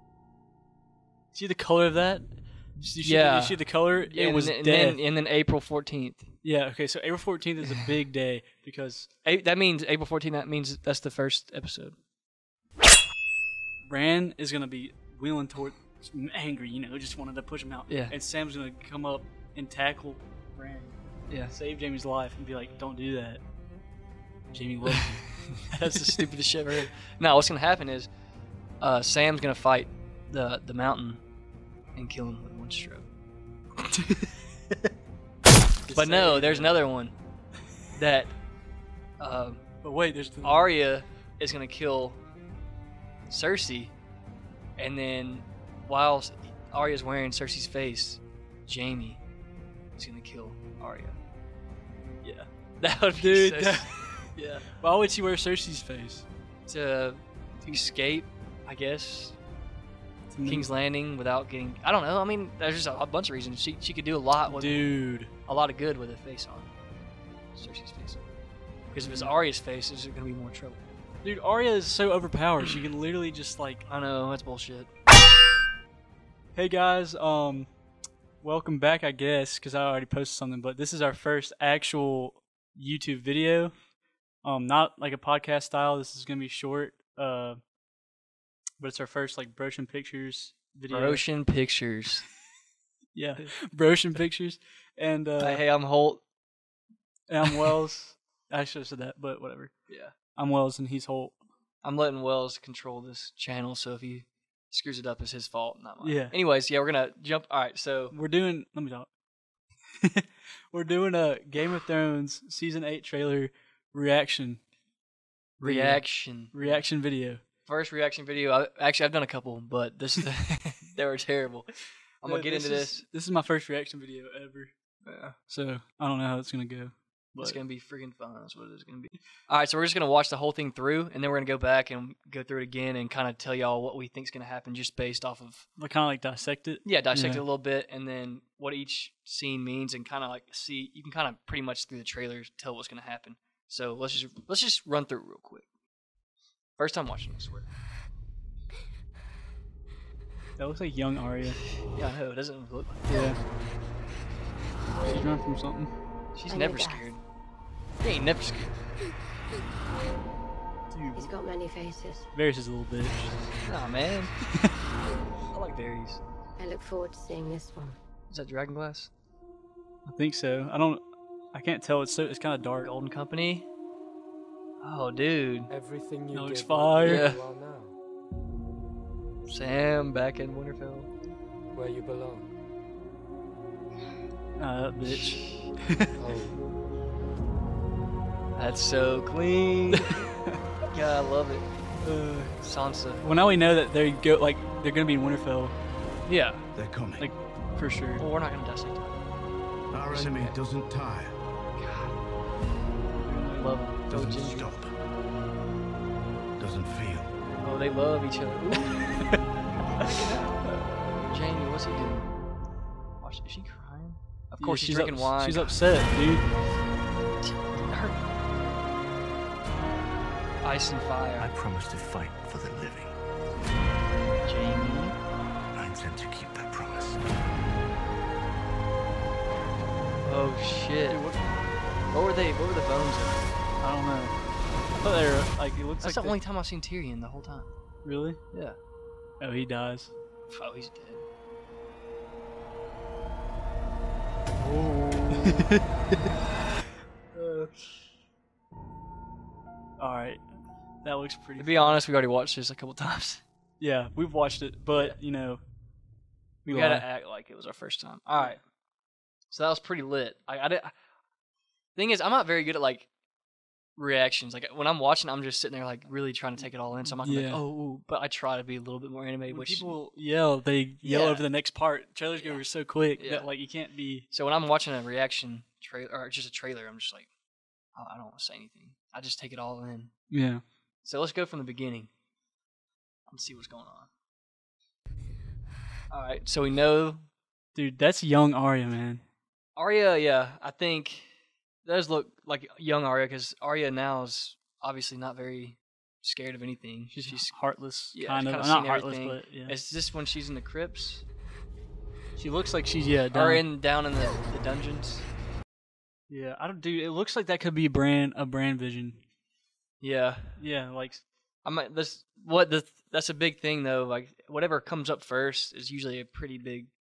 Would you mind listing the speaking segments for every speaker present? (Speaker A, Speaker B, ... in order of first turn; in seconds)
Speaker A: 1.3-5.0, 6.4-9.1, 13.9-20.9, 21.5-23.4, 24.5-25.3, 35.9-36.8, 39.8-40.6, 52.2-52.5, 53.1-56.3, 60.3-60.7, 64.5-65.3, 69.0-69.3, 71.2-73.8, 76.5-77.7, 78.4-83.7, 84.4-87.6, 88.8-91.2, 93.1-95.6, 97.3-99.7, 100.3-101.4, 106.0-106.4, 108.1-109.1, 110.0-114.6, 115.6-117.4, 122.2-124.7, 125.5-127.6, 135.8-137.4, 150.6-151.6, 153.1-153.4, 155.1-155.9, 160.9-161.3, 162.3-163.3, 170.1-172.9, 176.3-177.2, 184.6-186.2, 190.0-190.6, 192.0-192.6, 193.2-195.8, 197.2-198.2, 203.1-203.8, 208.9-209.4, 214.6-216.5, 231.1-231.4, 233.8-234.3, 234.9-236.4, 238.0-238.4, 239.4-240.1, 244.6-245.8, 247.4-247.7, 250.0-250.5, 251.0-252.0, 253.8-255.6, 256.7-257.1, 267.2-267.6, 269.5-274.3, 280.3-280.6, 287.8-289.2, 297.1-299.8, 302.4-303.6, 306.3-309.2, 310.6-311.2
Speaker B: 3.0-6.3, 9.2-12.0, 17.9-18.1, 21.3-21.5, 25.6-28.1, 28.8-31.2, 31.9-33.1, 35.9-37.1, 38.0-38.4, 39.2-39.6, 40.4-42.2, 43.3-43.9, 44.8-49.2, 50.0-51.2, 52.8-53.9, 56.7-59.4, 60.4-64.9, 65.5-66.7, 67.5-68.2, 68.9-70.9, 73.9-74.9, 90.9-92.3, 95.4-96.2, 99.9-100.2, 101.8-108.2, 115.6-116.9, 117.7-123.1, 125.0-125.4, 127.4-135.7, 136.8-145.7, 146.8-147.7, 151.9-153.2, 156.3-157.2, 158.0-158.8, 163.7-164.3, 165.5-166.2, 168.3-169.1, 172.8-173.7, 174.8-175.7, 177.0-177.4, 179.5-181.1, 185.1-185.7, 188.6-190.3, 190.9-191.7, 192.6-193.2, 196.3-196.7, 198.2-199.2, 200.1-200.6, 201.8-202.2, 203.6-204.7, 207.6-209.0, 210.0-210.6, 211.3-212.3, 213.2-215.8, 217.8-218.2, 220.6-221.5, 224.4-225.2, 230.2-231.2, 232.1-233.4, 236.0-237.7, 238.5-238.8, 240.5-241.2, 251.6-253.4, 254.9-255.2, 256.7-258.6, 259.5-260.9, 262.0-263.1, 264.0-269.9, 271.0-271.4, 273.2-273.5, 274.3-277.3, 277.9-280.1, 281.0-282.1, 283.3-284.1, 286.1-287.2, 289.8-291.3, 291.9-297.6, 298.1-301.2, 303.3-305.3, 310.0-310.5, 311.6-316.9
Speaker C: 156.5-157.1, 161.1-162.3, 166.6-168.0
Speaker D: 175.7-177.9, 181.7-182.5, 186.2-186.6
Speaker E: 196.8-197.2, 199.9-201.3, 204.1-204.9, 206.6-207.3, 221.4-223.2, 225.7-227.2